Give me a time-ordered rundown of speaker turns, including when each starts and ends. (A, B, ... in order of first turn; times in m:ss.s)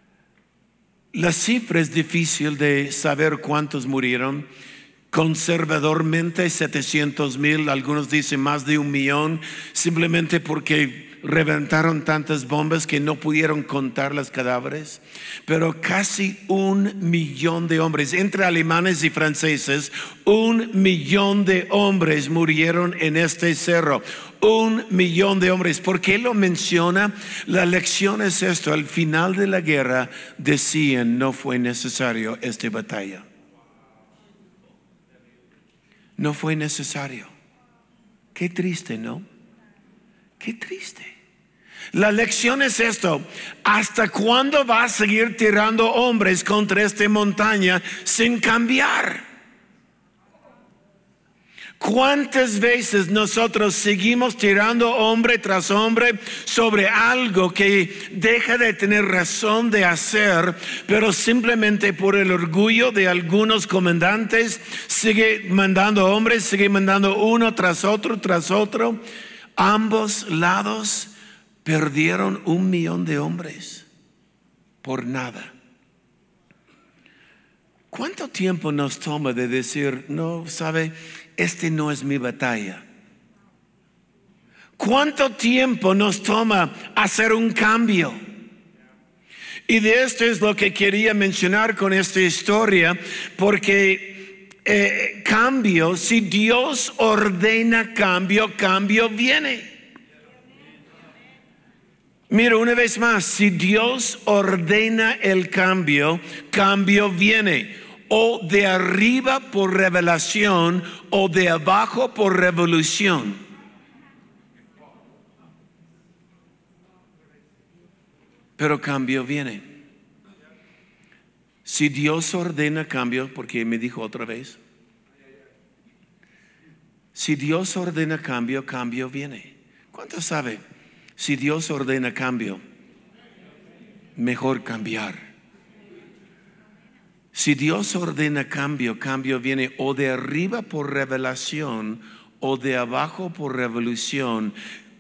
0:01.1-0:04.5 A
0:05.1-0:33.2 A
0:36.2-0:37.3 A
0:38.4-0:39.2 A
0:40.4-0:41.1 A
0:41.9-0:49.2 A
0:51.8-1:09.0 A
1:09.6-1:11.1 A
1:11.6-1:13.9 A
1:14.8-1:15.5 A
1:17.9-1:22.8 A
1:24.8-1:28.2 A
1:29.7-1:39.7 A
1:42.3-1:53.4 A
1:58.6-1:59.6 A
2:01.6-2:04.6 A
2:07.2-2:10.6 A
2:11.2-2:12.6 A
2:14.2-2:15.2 A
2:17.3-2:24.6 A